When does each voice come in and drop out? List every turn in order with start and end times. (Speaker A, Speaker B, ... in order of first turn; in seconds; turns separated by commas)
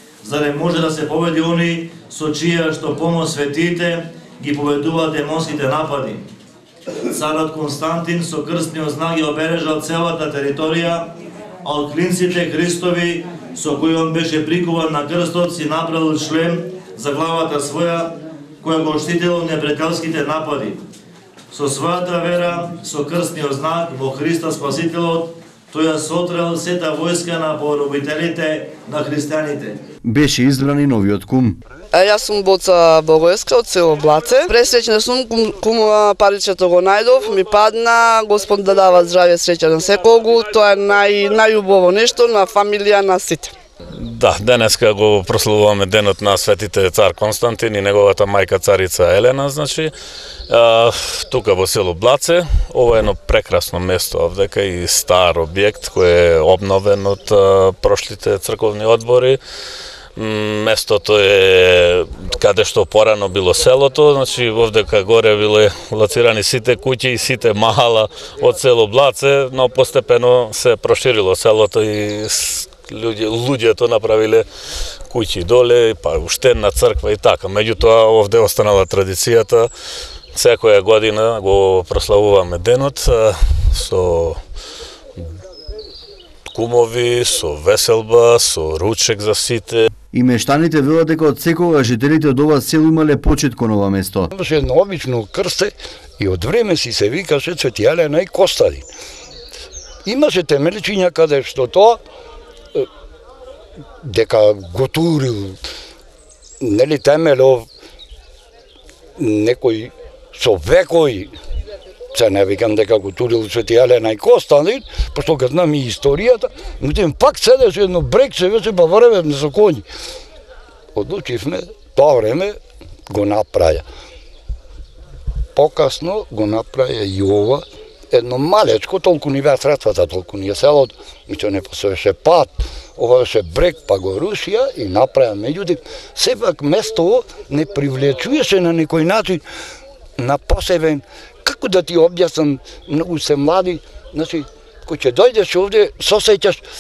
Speaker A: 0.2-6.2, Speaker A: 7.1-11.1, Speaker A: 11.6-20.8, Speaker A: 21.5-29.8, Speaker B: 30.0-31.6, Speaker C: 31.9-43.5, Speaker D: 44.0-49.9, Speaker D: 50.5-59.4, Speaker D: 60.2-74.5, Speaker D: 75.1-79.7, Speaker D: 80.3-84.4, Speaker D: 86.5-89.9, Speaker B: 90.1-94.3, Speaker E: 94.3-98.9, Speaker E: 100.0-102.0, Speaker E: 104.0-105.6, Speaker E: 106.6-107.7, Speaker E: 109.2-111.4, Speaker E: 112.1-119.9, Speaker E: 120.9-123.9, Speaker E: 125.5-139.5, Speaker E: 140.2-146.6